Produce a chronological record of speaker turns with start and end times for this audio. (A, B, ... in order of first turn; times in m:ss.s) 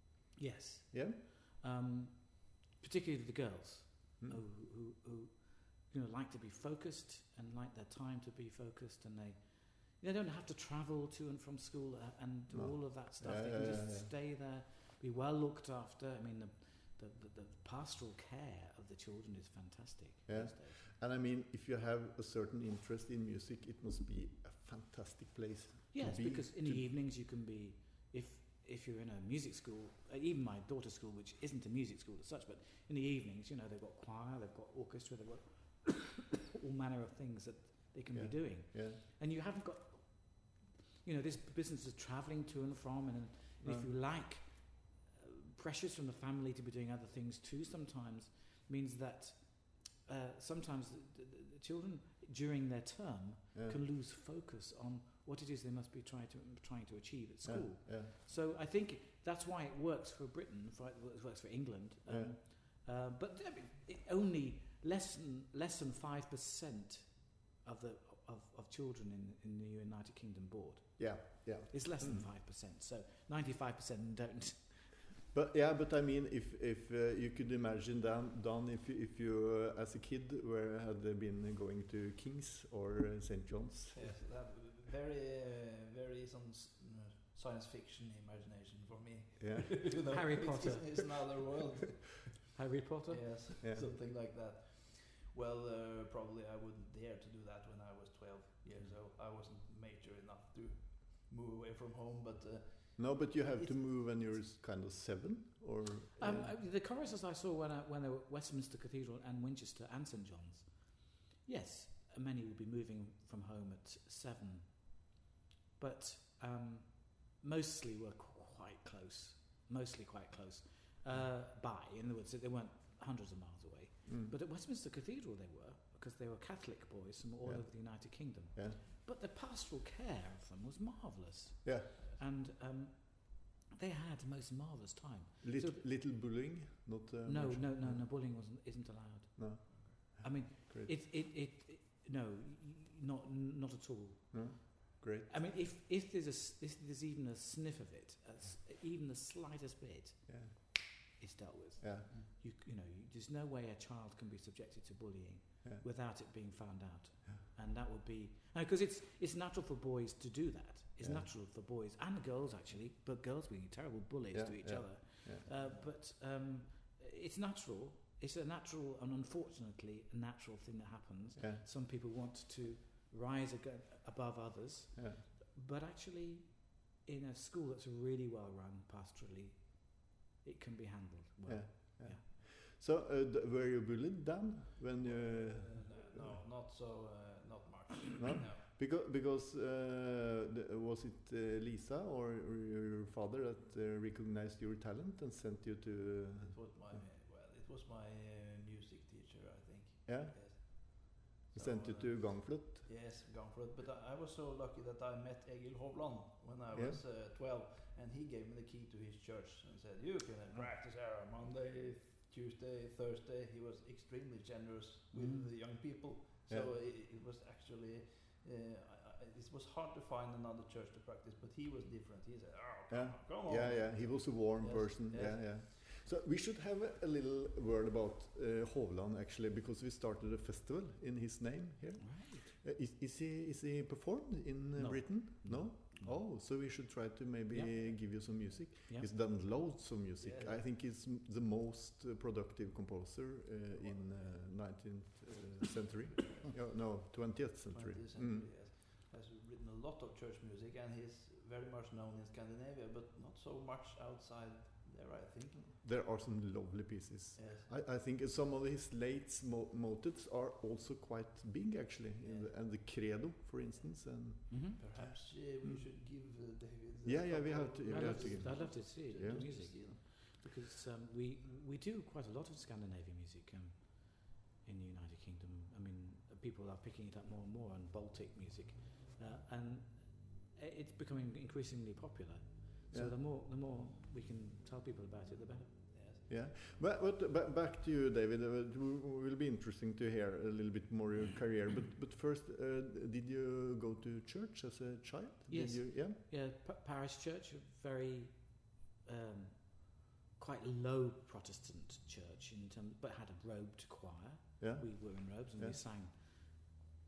0:00.4-0:20.8 A
0:00.9-0:01.2 B
0:12.5-0:14.1 B
0:20.3-0:26.9 B
0:25.9-1:14.9 A
0:38.1-0:39.0 B
0:43.6-0:43.9 B
0:53.6-0:53.8 B
0:57.4-0:58.1 B
1:02.1-1:02.4 B
1:11.0-1:12.3 B
1:15.3-1:24.1 B
1:23.9-1:32.3 C
1:29.4-1:30.0 B
1:29.8-1:31.0 A
1:32.5-1:33.3 A
1:33.1-1:43.8 C
1:33.6-1:33.9 B
1:43.0-1:46.6 B
1:46.2-1:55.1 A
1:55.8-2:15.8 A
2:04.1-2:04.4 B
2:07.4-2:08.8 B
2:11.6-2:11.9 B
2:15.4-2:18.2 B
2:17.2-3:02.2 A
2:19.4-2:20.9 B
2:19.7-2:20.0 C
2:24.3-2:25.3 B
2:30.3-2:30.9 B
2:31.8-2:32.1 B
2:41.0-2:41.3 B
2:44.3-2:45.5 B
2:45.5-2:45.8 C
2:51.4-2:51.6 B
2:55.0-2:55.2 B
3:01.5-3:06.4 B
3:05.0-3:08.6 C
3:08.2-3:17.0 B
3:16.5-3:45.6 C
3:20.1-3:22.9 B
3:26.7-3:27.0 B
3:42.9-4:08.5 B
3:52.0-3:52.5 A
3:54.8-3:56.2 A
3:57.5-3:59.1 A
4:00.2-4:00.6 C
4:03.8-4:04.4 C
4:06.2-4:06.7 C
4:07.7-4:15.8 C
4:15.7-4:24.9 B
4:17.4-4:17.7 C
4:22.2-4:22.5 C
4:24.5-4:24.8 A
4:24.8-4:30.2 C
4:27.0-4:29.4 B
4:27.9-4:45.7 A
4:45.9-4:46.3 C
4:46.3-4:56.2 B
4:55.5-5:06.7 A
5:04.6-5:05.8 B